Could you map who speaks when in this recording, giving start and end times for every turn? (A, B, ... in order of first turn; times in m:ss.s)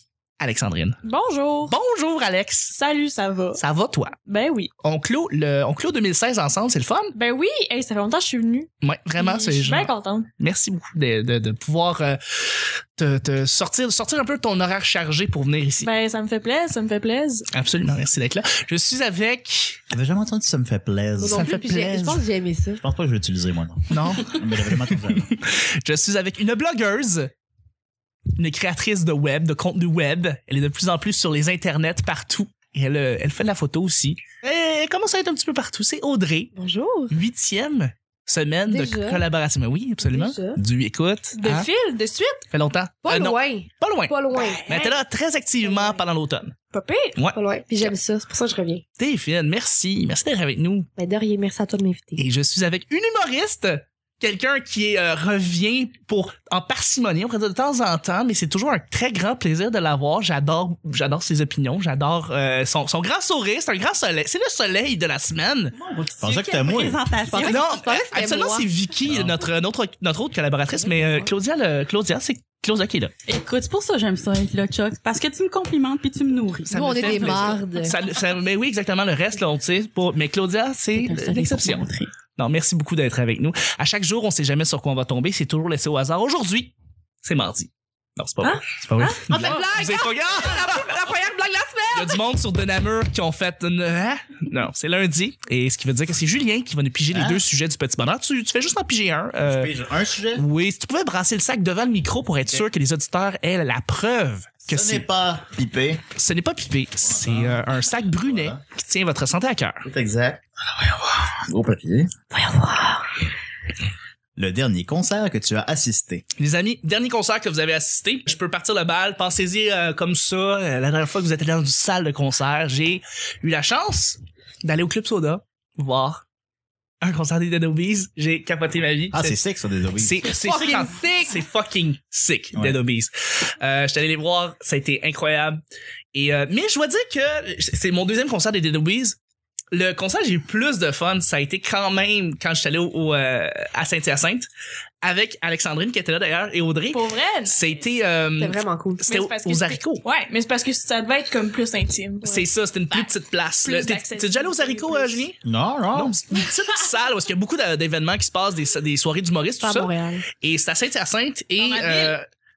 0:00.4-0:01.0 A
0:01.0-0:01.7 B
0:01.7-0:02.7 A
0:02.7-0:03.6 B
0:03.6-0:04.2 A
0:04.2-0:04.7 B
0:04.8-0:07.1 A
0:07.2-0:10.3 B
0:08.8-0:15.9 A
0:15.8-0:17.5 B
0:17.5-0:19.8 A
0:19.9-0:21.5 C
0:21.2-0:22.8 D
0:21.3-0:22.2 A
0:22.8-0:25.3 C
0:23.9-0:27.3 A
0:28.4-0:36.5 A
0:36.6-0:37.2 D
0:37.1-0:41.7 A
0:38.7-0:39.3 D
0:40.0-0:40.6 D
0:41.4-0:42.4 B
0:42.5-0:46.6 A
0:43.0-0:45.0 D
0:44.4-0:44.6 B
0:45.6-0:46.0 D
0:46.7-0:47.2 B
0:47.2-0:47.9 A
0:47.3-0:48.8 D
0:49.0-0:50.9 A
0:51.0-0:52.2 D
0:52.2-1:05.8 A
1:05.8-1:07.6 E
1:06.2-1:07.0 C
1:07.2-1:08.7 D
1:07.4-1:13.1 A
1:09.1-1:09.4 C
1:10.8-1:11.3 D
1:13.3-1:17.4 E
1:16.7-1:30.9 A
1:16.7-1:18.0 D
1:21.0-1:22.1 E
1:28.4-1:29.5 B
1:29.3-1:32.2 D
1:31.9-1:39.7 A
1:37.1-1:37.4 C
1:39.4-1:40.4 C
1:40.4-1:45.0 A
1:44.7-1:46.0 C
1:46.2-1:49.9 A
1:47.0-1:48.6 C
1:49.9-1:50.4 C
1:51.1-1:52.1 C
1:52.4-1:53.0 D
1:54.4-1:56.2 C
1:56.4-2:06.2 A
2:07.0-2:09.4 A
2:09.1-2:10.3 C
2:10.0-2:15.6 A
2:10.3-2:11.4 D
2:12.5-2:12.8 C
2:16.1-2:19.2 A
2:19.7-2:24.5 A
2:25.0-2:30.0 A
2:26.9-2:27.7 B
2:28.4-2:29.0 D
2:29.1-2:33.1 B
2:32.2-2:35.4 A
2:33.6-2:35.2 B
2:35.4-2:36.2 C
2:35.9-2:42.2 A
2:39.6-2:40.2 D
2:41.6-2:42.2 B